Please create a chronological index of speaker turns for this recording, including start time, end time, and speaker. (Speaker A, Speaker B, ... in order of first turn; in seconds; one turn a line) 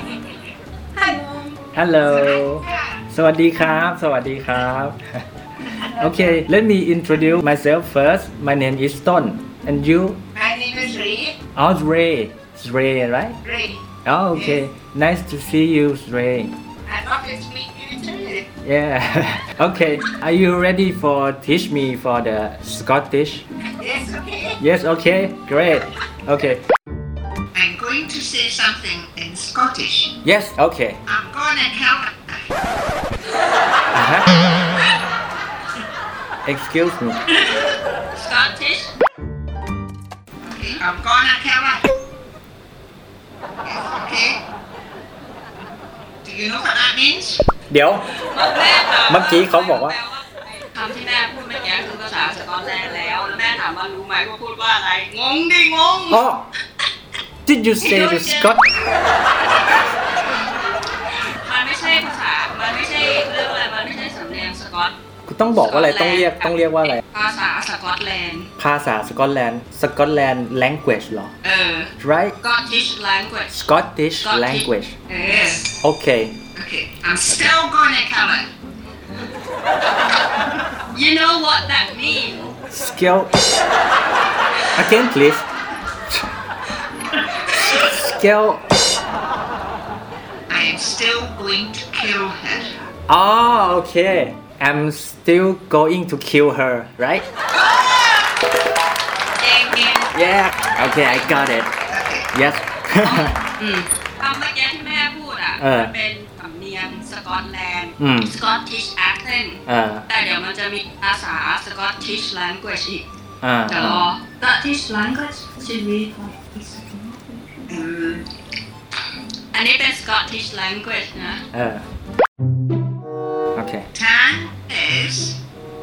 Speaker A: 1.0-1.6
Speaker B: 1.8-5.2
Speaker C: 2.1-3.0
Speaker B: 5.9-10.2
Speaker C: 10.3-11.4
Speaker B: 11.6-13.4
Speaker C: 13.4-13.8
Speaker B: 14.0-16.5
Speaker C: 14.3-14.6
Speaker C: 16.9-18.5
Speaker B: 18.6-23.5
Speaker C: 23.8-24.6
Speaker B: 24.6-26.6
Speaker C: 27.5-30.1
Speaker B: 30.2-31.0
Speaker C: 31.1-32.5
Speaker B: 33.9-35.0
Speaker B: 36.5-37.2
Speaker A: 38.2-38.9
Speaker C: 40.4-41.9
Speaker C: 43.6-44.4
Speaker C: 46.2-47.5
Speaker B: 47.7-48.1
Speaker A: 48.1-56.2
Speaker B: 49.1-50.0
Speaker B: 56.1-56.5
Speaker B: 57.5-58.6
Speaker A: 57.8-58.7
Speaker A: 59.4-59.7
Speaker A: 61.4-64.9
Speaker B: 65.3-67.0
Speaker A: 65.6-68.5
Speaker B: 68.6-71.3
Speaker A: 71.4-73.5
Speaker B: 72.0-72.4
Speaker B: 73.5-75.0
Speaker A: 74.2-75.7
Speaker C: 75.2-75.7
Speaker B: 75.8-76.4
Speaker C: 76.5-78.5
Speaker A: 80.9-82.5
Speaker B: 82.7-83.3
Speaker B: 84.8-85.5
Speaker B: 87.6-88.6
Speaker C: 90.5-92.7
Speaker B: 93.1-97.3
Speaker A: 99.4-100.1
Speaker B: 100.1-101.7
Speaker C: 101.9-102.3
Speaker B: 102.3-103.4
Speaker A: 103.0-113.1
Speaker B: 105.6-105.9
Speaker B: 108.0-108.3
Speaker B: 109.7-110.1
Speaker B: 113.4-114.1
Speaker A: 113.7-117.4
Speaker C: 117.7-118.3
Speaker A: 119.5-121.4
Speaker B: 121.5-121.9
Speaker B: 123.5-123.9
Speaker C: 123.9-125.4